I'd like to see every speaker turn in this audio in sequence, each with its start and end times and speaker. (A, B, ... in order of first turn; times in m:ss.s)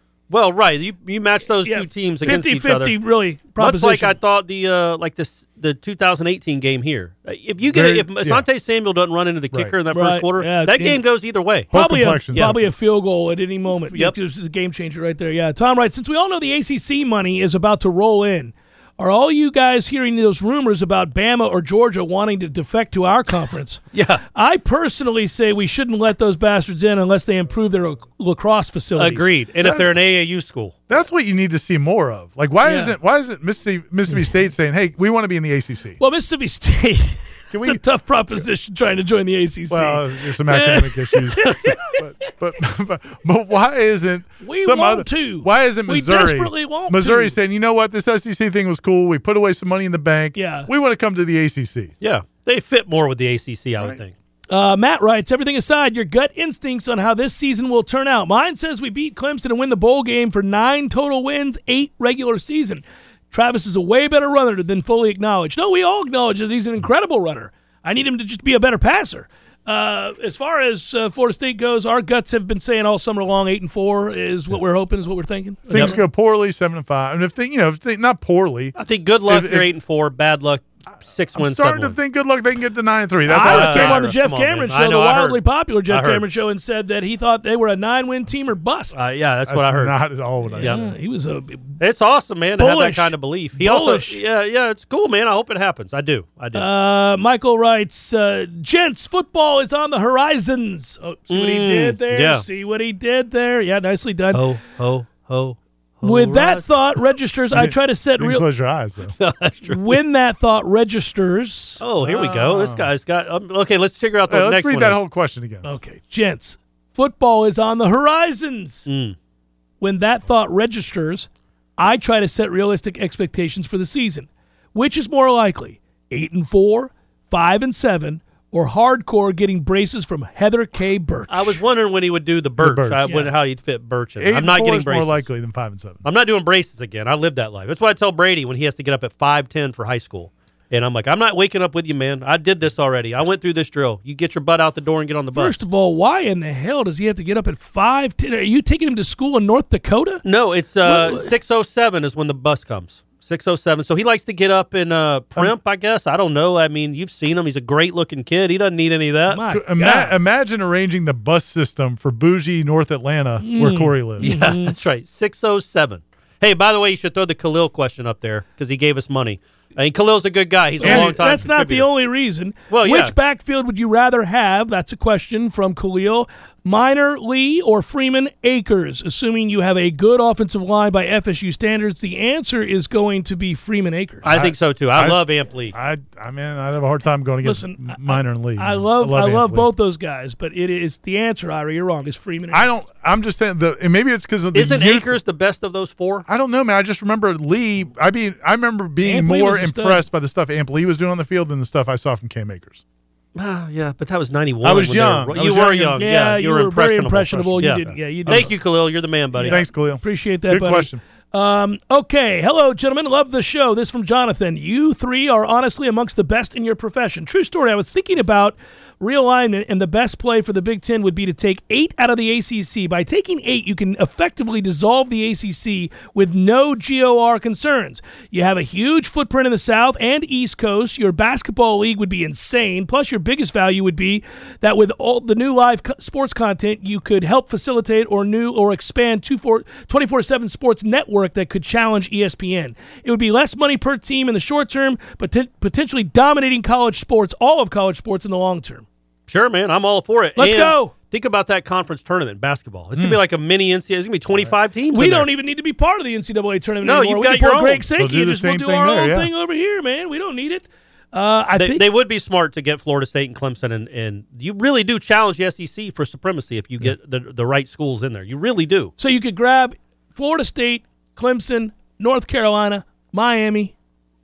0:00.3-0:03.0 A
0:01.6-0:04.2 B
0:03.6-0:11.7 A
0:07.7-0:08.4 C
0:09.9-0:11.0 B
0:11.7-0:12.7 C
0:11.7-0:23.8 B
0:23.9-0:24.2 A
0:24.3-0:29.3 B
0:29.0-0:30.8 A
0:29.6-0:29.9 C
0:30.9-0:36.0 C
0:32.6-0:32.9 B
0:36.0-0:42.0 B
0:37.5-0:38.4 C
0:39.7-0:51.9 C
0:44.4-0:47.4 B
0:50.4-0:50.7 B
0:52.0-0:54.1 A
0:54.5-1:16.0 B
1:15.7-1:18.8 C
1:18.8-1:22.0 A
1:19.3-1:19.7 C
1:21.4-1:24.1 C
1:23.3-1:29.0 B
1:23.4-1:26.3 A
1:28.9-1:30.0 A
1:29.5-1:30.8 C
1:30.5-1:31.8 B
1:30.6-1:30.9 A
1:31.8-1:36.7 A
1:32.6-1:34.2 B
1:36.5-1:44.4 B
1:41.3-1:42.4 A
1:44.3-1:47.0 A
1:46.0-1:48.5 B
1:47.5-1:49.2 C
1:49.2-1:50.0 A
1:49.7-1:51.8 B
1:51.8-1:55.0 A
1:52.0-1:52.9 C
1:54.3-1:55.7 C
1:55.6-1:58.9 B
1:58.9-1:59.2 A
1:59.8-2:11.6 B
2:11.3-2:15.3 A
2:12.6-2:13.1 C
2:13.0-2:13.3 B
2:14.2-2:16.0 C
2:16.0-2:25.6 A
2:25.4-2:30.2 B
2:30.2-2:39.4 A
2:30.8-2:31.3 B
2:39.3-2:40.2 B
2:39.5-2:44.3 C
2:43.4-2:44.8 B
2:44.2-2:51.9 A
2:50.8-3:04.3 B
2:50.8-2:51.3 C
2:52.7-2:53.1 A
3:04.2-3:05.8 A
3:04.3-3:09.7 C
3:07.4-3:12.7 B
3:12.5-3:15.2 C
3:14.5-3:16.3 A
3:16.3-3:22.8 C
3:19.0-3:20.1 B
3:23.4-3:29.6 A
3:24.6-3:26.0 C
3:26.0-3:28.5 B
3:27.3-3:28.5 C
3:29.4-4:08.9 B
3:29.5-3:31.0 C
4:09.3-4:15.3 A
4:10.4-4:10.9 B
4:14.9-4:21.8 B
4:16.8-4:17.8 A
4:18.0-4:19.3 C
4:21.6-4:28.9 A
4:29.0-4:33.7 B